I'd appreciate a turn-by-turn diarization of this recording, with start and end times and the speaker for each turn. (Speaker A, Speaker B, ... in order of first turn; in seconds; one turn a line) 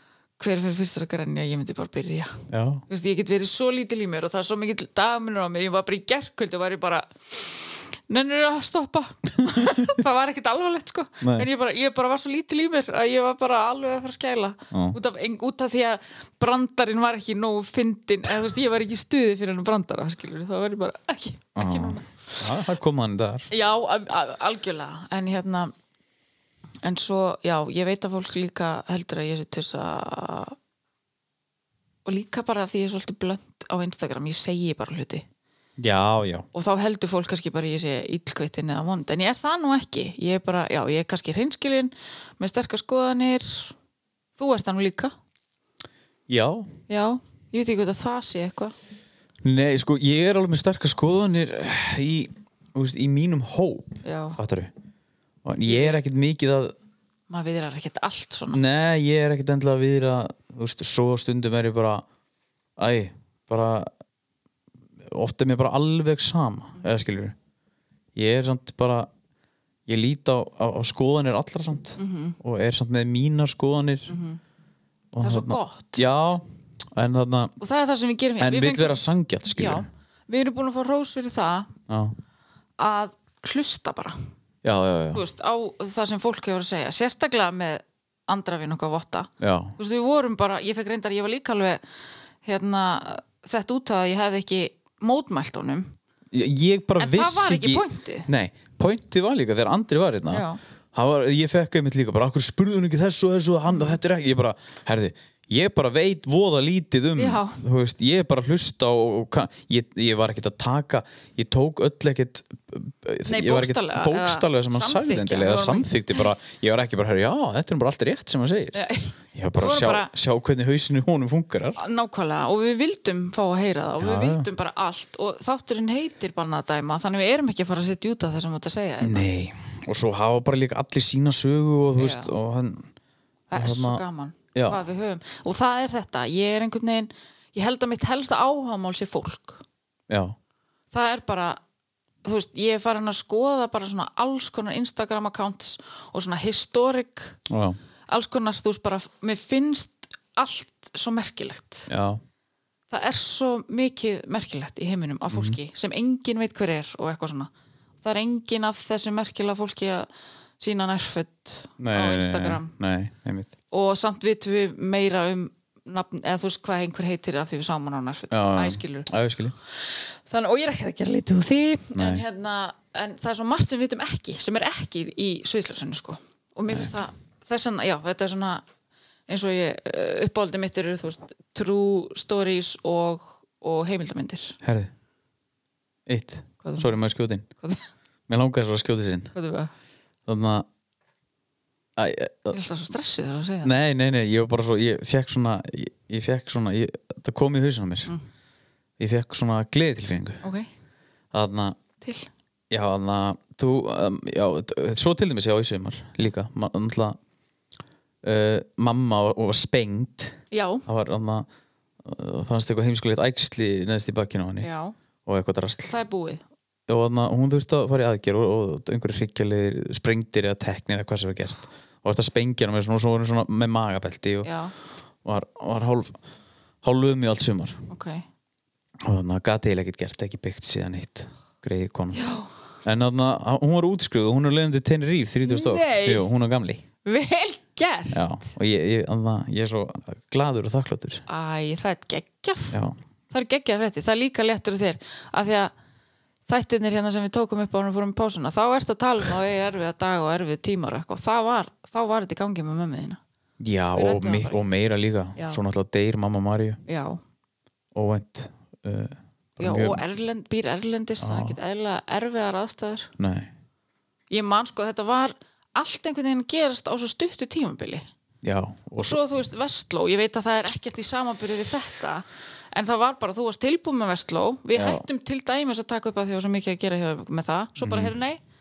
Speaker A: 0.4-22.4
Speaker B: 2.5-2.8
Speaker B: 11.2-11.5
Speaker B: 14.7-15.0
Speaker B: 21.6-23.5
Speaker A: 23.5-25.7
Speaker A: 26.8-30.6
Speaker A: 32.0-35.2
Speaker B: 35.8-36.5
Speaker A: 36.5-43.7
Speaker A: 44.4-45.1
Speaker B: 46.3-46.7
Speaker A: 46.9-48.7
Speaker B: 49.4-54.7
Speaker A: 54.0-54.4
Speaker B: 55.4-56.7
Speaker A: 55.6-56.0
Speaker A: 57.3-58.6
Speaker B: 58.5-62.0
Speaker B: 62.8-63.9
Speaker B: 65.0-67.3
Speaker B: 68.1-69.1
Speaker B: 69.9-74.1
Speaker A: 72.0-72.4
Speaker A: 74.1-74.4
Speaker B: 75.1-76.4
Speaker A: 75.2-76.1
Speaker B: 76.9-77.5
Speaker A: 77.6-79.0
Speaker B: 78.4-79.9
Speaker A: 79.5-81.7
Speaker B: 81.9-82.1
Speaker A: 82.8-84.2
Speaker B: 84.6-85.2
Speaker A: 85.1-91.8
Speaker B: 89.4-89.7
Speaker A: 92.4-95.9
Speaker B: 96.3-118.8
Speaker A: 97.0-98.3
Speaker A: 100.3-100.6
Speaker A: 103.7-104.0
Speaker A: 107.2-107.6
Speaker A: 113.2-116.2
Speaker A: 118.7-120.1
Speaker B: 119.3-121.8
Speaker A: 121.8-129.2
Speaker B: 124.0-124.5
Speaker B: 129.0-132.9
Speaker A: 132.0-132.3
Speaker A: 133.5-139.6
Speaker B: 133.5-134.0
Speaker B: 134.5-134.8
Speaker B: 140.1-140.3
Speaker A: 140.9-141.6
Speaker A: 142.2-147.4
Speaker B: 147.5-147.8
Speaker A: 148.1-151.9
Speaker B: 151.9-152.2
Speaker A: 152.9-157.5
Speaker B: 155.3-155.6
Speaker A: 158.0-160.1
Speaker A: 160.6-162.7
Speaker B: 161.8-163.5
Speaker A: 163.7-169.1
Speaker B: 168.3-169.5
Speaker A: 169.7-178.6
Speaker B: 171.9-172.2
Speaker A: 179.3-184.6
Speaker B: 184.6-184.9
Speaker B: 186.1-187.4
Speaker A: 186.6-186.9
Speaker B: 188.3-189.3
Speaker A: 189.3-189.7
Speaker B: 190.2-190.7
Speaker B: 192.0-192.6
Speaker A: 192.5-193.7
Speaker B: 193.6-198.1
Speaker B: 199.0-200.4
Speaker A: 200.4-200.7
Speaker B: 201.3-201.8
Speaker A: 202.0-202.3
Speaker B: 202.7-207.2
Speaker B: 208.2-211.5
Speaker A: 210.5-210.8
Speaker B: 212.0-214.7
Speaker A: 214.6-214.9
Speaker B: 215.2-215.9
Speaker A: 215.8-216.4
Speaker B: 216.9-224.5
Speaker A: 224.4-224.7
Speaker B: 225.2-226.2
Speaker B: 226.8-227.8
Speaker A: 227.9-228.2
Speaker B: 229.0-232.2
Speaker A: 232.1-232.5
Speaker B: 232.8-236.8
Speaker A: 235.4-236.3
Speaker A: 237.0-238.2
Speaker B: 238.1-241.2
Speaker A: 241.3-242.8
Speaker B: 242.7-243.0
Speaker A: 243.3-245.7
Speaker A: 246.5-253.2
Speaker B: 253.6-256.8
Speaker A: 253.9-254.6
Speaker A: 256.9-257.2
Speaker B: 257.9-260.0
Speaker A: 259.6-263.1
Speaker B: 261.2-261.6
Speaker B: 263.2-263.5
Speaker A: 264.3-268.1
Speaker B: 268.4-269.2
Speaker A: 269.0-278.4
Speaker B: 274.7-275.0
Speaker B: 277.8-278.1